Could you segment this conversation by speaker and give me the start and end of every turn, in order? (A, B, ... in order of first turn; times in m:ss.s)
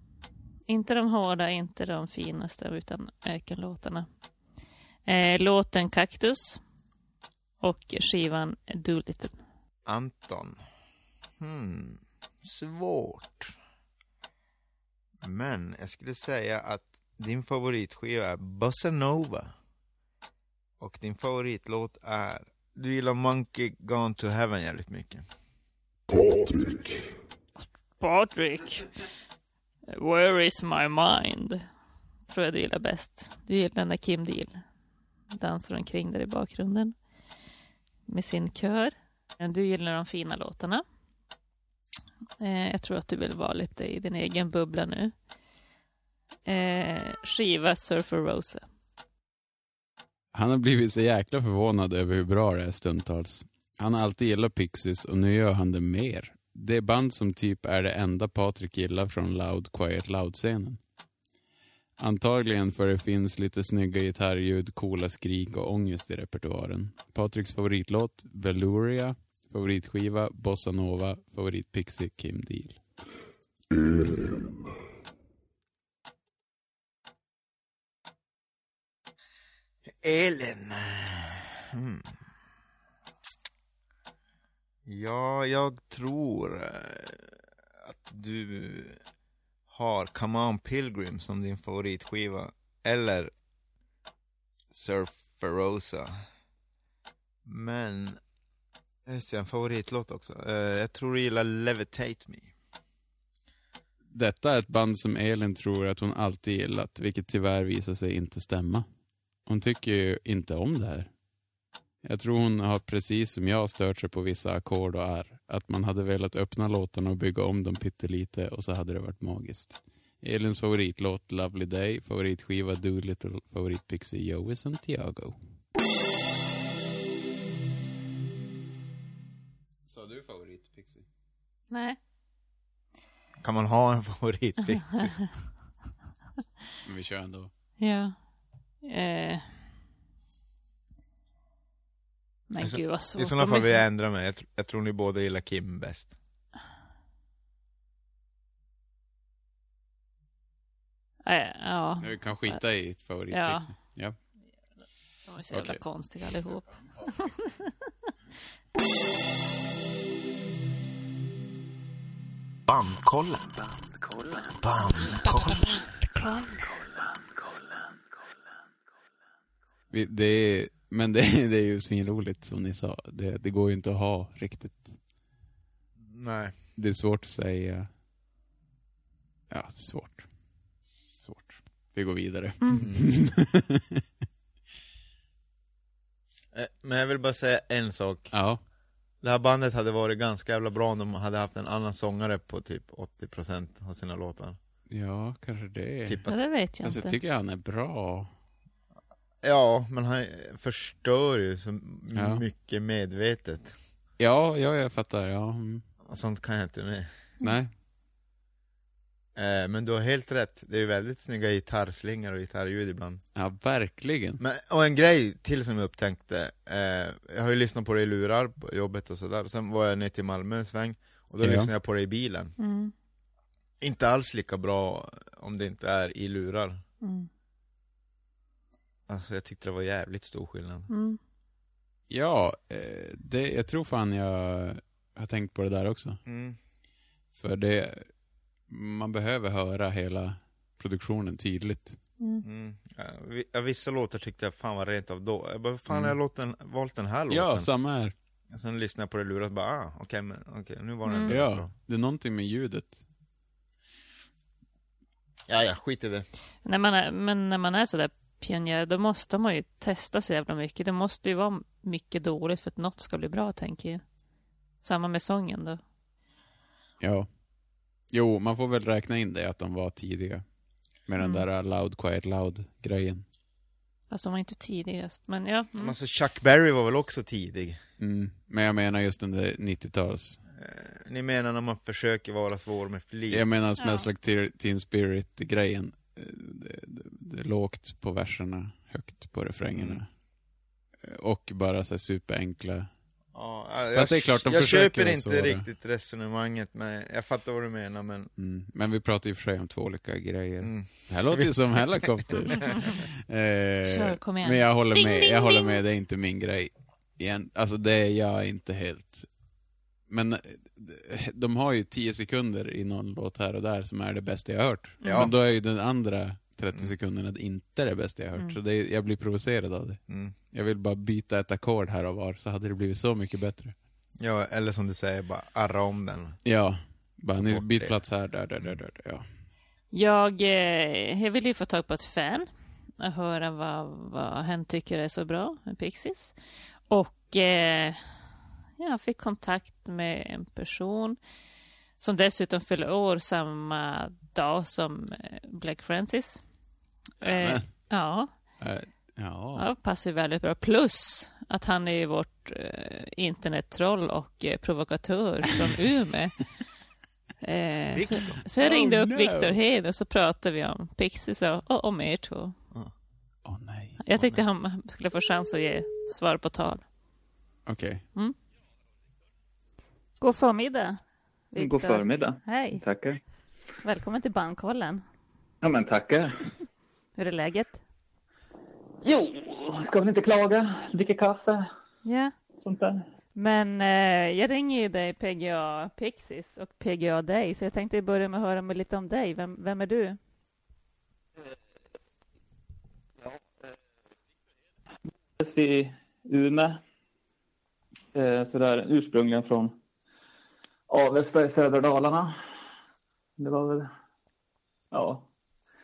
0:00.7-0:04.1 A
0:05.0-0:06.6 A
0:07.6-0:09.4 A
0:09.8-0:10.6 B
0:11.4-0:13.5 B
0:15.2-0:19.5 B
0:20.8-0:25.2 B
0:26.1-0:27.0 C
0:28.0-0:28.8 A
0:29.9-0:31.6 A
0:32.3-0:34.6 A
0:35.3-0:37.0 A
0:38.1-0:40.8 A
0:42.4-0:45.1 A
0:46.4-0:48.6 A
0:50.3-1:00.8 D
1:02.0-1:12.8 D
1:13.7-1:14.7 C
1:20.0-1:22.1 B
1:24.8-1:27.3 B
1:27.8-1:29.0 B
1:29.7-1:33.3 B
1:34.7-1:36.2 B
1:37.4-1:38.2 B
1:39.0-1:42.5 B
1:44.1-1:48.8 D
1:49.4-1:51.1 D
1:52.0-2:05.4 D
2:09.8-2:11.0 D
2:11.7-2:12.0 A
2:13.4-2:15.2 B
2:16.8-2:17.5 D
2:17.8-2:18.2 A
2:18.8-2:19.4 A
2:22.5-2:23.8 A
2:22.6-2:26.1 B
2:31.2-2:32.6 A
2:32.0-2:34.2 D
2:33.3-2:33.7 A
2:35.2-2:37.5 A
2:35.5-2:35.8 D
2:42.7-2:43.7 E
2:44.6-2:45.7 E
2:49.9-2:55.0 D
2:56.0-2:56.5 B
2:56.8-2:57.9 D
2:59.5-3:00.3 D
3:01.2-3:03.8 D
3:02.8-3:03.2 B
3:06.5-3:08.5 B
3:08.3-3:08.6 D
3:09.2-3:14.6 B
3:14.9-3:18.3 D
3:16.3-3:17.2 A
3:19.4-3:23.7 B
3:22.1-3:22.4 D
3:24.2-3:25.8 D
3:26.0-3:27.1 B
3:27.4-3:27.7 D
3:29.4-3:33.2 B
3:33.3-3:34.4 D
3:34.4-3:42.5 B
3:41.4-3:41.7 D
3:42.6-3:42.9 A
3:43.8-3:46.8 B
3:47.0-3:47.3 A
3:49.1-3:50.9 B
3:50.9-3:51.2 A
3:52.1-3:56.2 D
3:56.2-3:56.6 B
3:57.4-3:58.1 D
3:58.7-4:02.0 D
4:02.4-4:07.7 B
4:05.9-4:06.2 D
4:07.3-4:08.1 D
4:08.5-4:11.7 B
4:11.0-4:11.4 A
4:11.3-4:13.0 D
4:15.5-4:16.3 B
4:16.6-4:24.0 A
4:24.8-4:25.8 A
4:27.0-4:27.4 D
4:28.1-4:30.5 D
4:31.0-4:33.2 D
4:31.2-4:31.4 A
4:34.1-4:35.9 A
4:35.8-4:37.8 B
4:38.0-4:40.4 D
4:40.6-4:43.4 B
4:43.3-4:50.1 D
4:43.8-4:44.1 A
4:49.7-4:50.0 B
4:51.0-4:52.9 D
4:53.3-4:58.3 B
4:53.9-4:55.6 D
4:58.4-5:09.3 D
5:00.6-5:02.3 B
5:03.8-5:05.8 A
5:10.1-5:23.7 D
5:15.0-5:15.3 A
5:15.0-5:15.3 B
5:20.1-5:20.3 B
5:24.2-5:26.4 B
5:26.4-5:29.2 D
5:27.3-5:28.0 B
5:29.9-5:36.3 A
5:36.9-5:38.0 A
5:38.8-5:41.2 A
5:42.0-5:46.4 A
5:47.2-5:48.3 A
5:47.2-5:47.9 D
5:48.6-5:49.6 D
5:49.6-5:56.3 A
5:57.4-6:02.5 A
5:57.9-5:58.5 B
5:58.6-5:59.5 D
6:03.4-6:04.0 D
6:04.0-6:06.8 A
6:04.1-6:04.4 B
6:07.6-6:08.0 D
6:10.2-6:11.0 A
6:11.5-6:12.8 A
6:11.6-6:13.2 F
6:13.8-6:15.0 A
6:15.6-6:16.3 F
6:17.2-6:17.7 A
6:19.0-6:21.7 F
6:22.0-6:22.3 A
6:22.6-6:23.0 F
6:23.4-6:30.2 A
6:35.4-6:36.8 F
6:38.1-6:39.7 F
6:40.9-6:42.3 F
6:43.4-6:43.9 F
6:44.9-6:45.2 F